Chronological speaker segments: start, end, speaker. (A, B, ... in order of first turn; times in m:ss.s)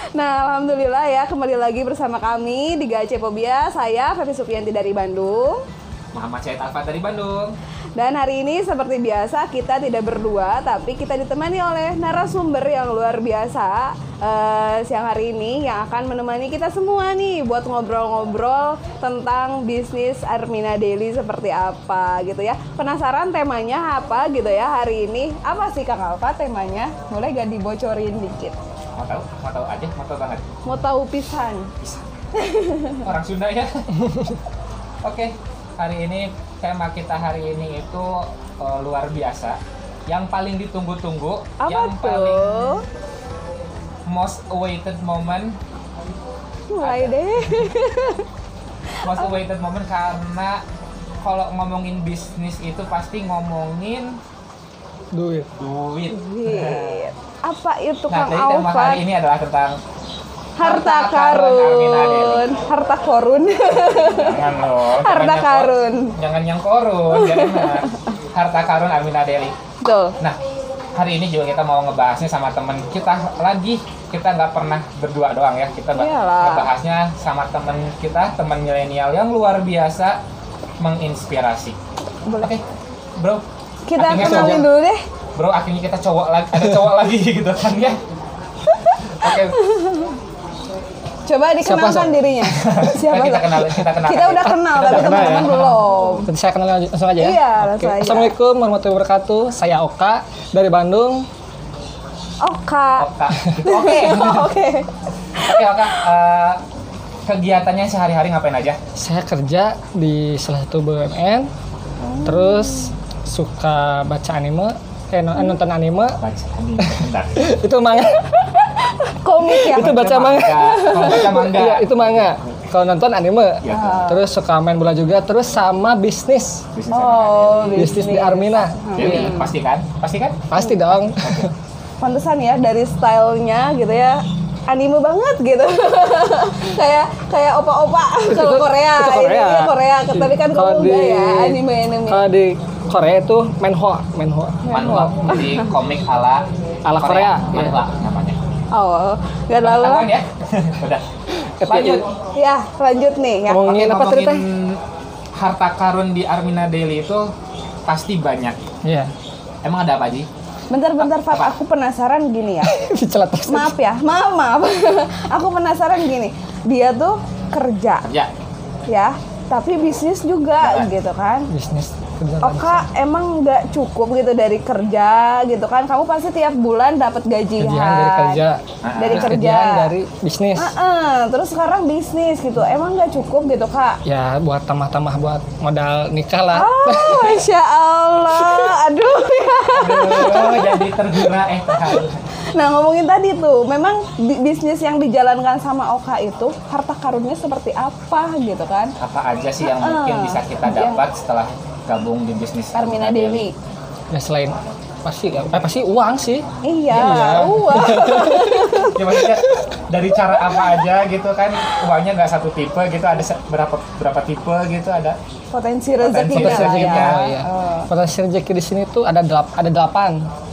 0:00.1-0:05.6 A
0:06.1-0:07.5 B
0:08.0-0:28.6 A
0:29.0-0:30.4 B
0:30.6-0:31.7 A
0:32.4-0:33.0 A
0:33.0-0:33.9 B
0:35.0-0:42.8 B
0:41.6-0:42.8 A
0:44.1-0:45.6 B
0:46.7-0:48.2 A
0:46.8-0:47.7 B
0:48.9-0:49.3 A
0:49.0-0:50.6 B
0:51.2-0:54.2 B
0:55.1-0:55.5 C
0:55.6-0:57.0 B
0:56.1-0:59.0 A
0:58.1-0:59.8 B
1:00.6-1:06.1 A
1:00.6-1:02.5 B
1:03.7-1:09.5 B
1:07.1-1:08.0 A
1:09.8-1:10.1 A
1:11.0-1:20.2 B
1:15.9-1:16.7 A
1:20.8-1:21.8 B
1:23.9-1:25.0 A
1:24.0-1:24.7 B
1:24.2-1:24.6 C
1:25.4-1:28.0 B
1:28.9-1:30.1 A
1:29.0-1:29.6 B
1:31.3-1:36.3 A
1:31.6-1:32.3 C
1:32.5-1:36.2 B
1:34.8-1:41.3 C
1:37.2-1:38.3 A
1:42.4-1:43.1 A
1:43.0-1:44.5 B
1:43.6-1:44.9 A
1:45.4-1:46.6 B
1:47.3-1:48.8 B
1:49.0-1:51.5 C
1:52.0-1:52.9 A
1:52.2-1:56.2 C
1:56.2-1:57.5 B
1:56.8-1:58.3 C
1:58.4-2:01.3 A
1:59.5-2:06.6 C
1:59.8-2:02.4 B
2:03.6-2:04.0 B
2:03.7-2:04.2 A
2:06.7-2:08.0 B
2:06.9-2:09.5 A
2:07.7-2:09.4 C
2:09.0-2:10.5 B
2:10.5-2:11.5 C
2:11.2-2:11.5 B
2:12.0-2:22.2 A
2:18.3-2:25.5 C
2:24.6-2:25.6 A
2:24.7-2:26.4 B
2:26.8-2:27.8 C
2:27.0-2:28.4 B
2:28.7-2:30.1 A
2:29.6-2:31.0 B
2:31.4-2:32.0 C
2:31.7-2:32.0 B
2:31.7-2:33.7 A
2:33.5-2:34.4 C
2:33.6-2:34.8 B
2:35.4-2:37.3 B
2:37.9-2:38.6 B
2:38.8-2:39.1 C
2:39.6-2:40.3 B
2:40.7-2:42.7 A
2:41.0-2:41.5 B
2:42.6-2:43.7 C
2:43.5-2:48.0 A
2:48.0-2:48.3 B
2:48.9-2:51.5 A
2:50.6-2:50.9 B
2:51.5-2:52.8 C
2:52.4-2:58.4 A
2:57.6-3:00.7 C
2:58.8-2:59.4 B
2:59.0-2:59.9 A
3:00.6-3:04.0 A
3:04.0-3:07.4 C
3:06.5-3:12.0 A
3:08.3-3:08.7 C
3:09.7-3:12.2 B
3:12.5-3:18.9 A
3:19.0-3:23.4 B
3:19.6-3:21.0 A
3:22.7-3:23.5 A
3:24.1-3:28.8 C
3:26.6-3:29.2 A
3:27.2-3:27.4 B
3:28.8-3:35.2 B
3:35.5-3:37.9 A
3:36.0-3:37.3 B
3:36.3-3:40.3 C